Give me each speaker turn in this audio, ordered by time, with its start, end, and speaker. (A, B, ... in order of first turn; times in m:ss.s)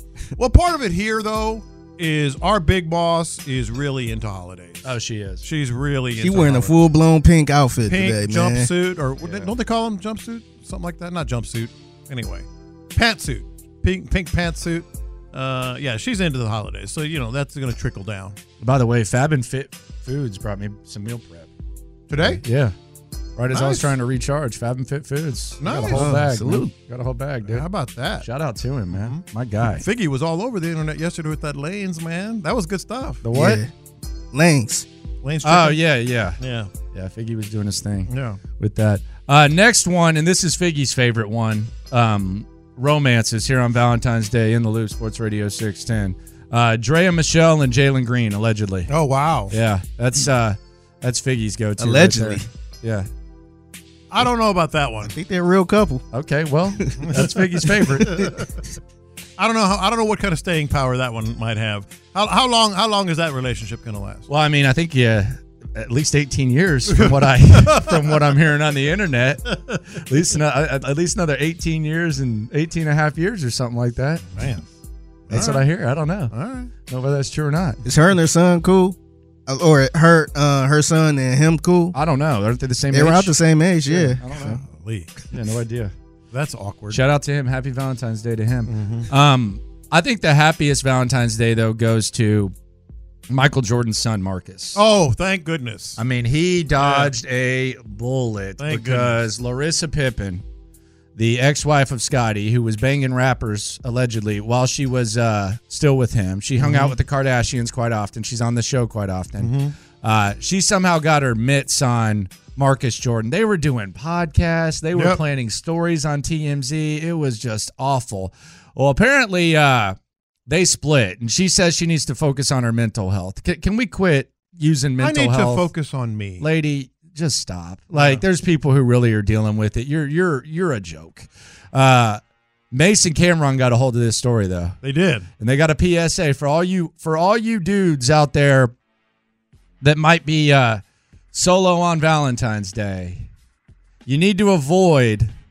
0:00.4-0:04.8 A
0:04.8-0:05.4 B
0:05.4-0:06.8 A
0:06.2-0:08.7 C
0:07.9-0:18.4 A
0:09.2-0:09.5 B
0:18.6-0:21.5 B
0:22.1-0:22.4 A
0:22.2-0:22.7 B
0:23.4-0:27.7 B
0:23.5-0:23.9 A
0:25.6-0:26.2 A
0:25.7-0:26.7 C
0:27.4-0:28.3 A
0:28.2-0:29.8 B
0:28.9-0:33.2 A
0:33.2-0:33.6 B
0:33.3-0:33.7 C
0:34.3-0:34.9 C
0:35.2-0:35.8 A
0:35.4-0:48.9 B
0:36.4-0:36.7 A
0:38.1-0:38.4 A
0:48.9-0:49.6 A
0:49.5-0:53.1 B
0:51.8-0:52.5 C
0:54.1-0:55.2 A
0:55.1-0:56.0 C
0:56.1-0:58.3 B
0:57.0-0:57.3 A
0:58.0-0:58.5 A
0:58.0-0:58.3 C
0:59.4-1:04.3 A
1:04.3-1:14.4 B
1:06.9-1:08.3 A
1:09.5-1:09.8 A
1:14.3-1:14.7 A
1:15.3-1:15.7 A
1:15.3-1:17.8 B
1:16.3-1:16.7 A
1:17.8-1:19.0 C
1:19.5-1:22.0 C
1:21.9-1:23.3 B
1:22.9-1:24.6 C
1:23.9-1:24.6 B
1:23.9-1:25.2 A
1:25.3-1:25.9 B
1:26.3-1:27.0 A
1:26.9-1:32.5 B
1:28.7-1:29.1 A
1:33.3-1:34.8 B
1:34.8-1:36.0 A
1:36.0-1:40.4 B
1:36.8-1:37.1 A
1:38.6-1:39.2 A
1:41.2-2:00.0 B
1:46.6-1:47.0 A
1:49.4-1:49.7 A
1:54.9-1:55.2 A
2:00.5-2:05.7 B
2:05.0-2:06.5 A
2:06.4-2:12.2 B
2:07.9-2:08.2 A
2:12.7-2:14.8 B
2:14.8-2:15.3 A
2:15.4-2:18.7 B
2:19.8-2:20.8 B
2:21.3-2:23.3 B
2:24.1-2:25.3 B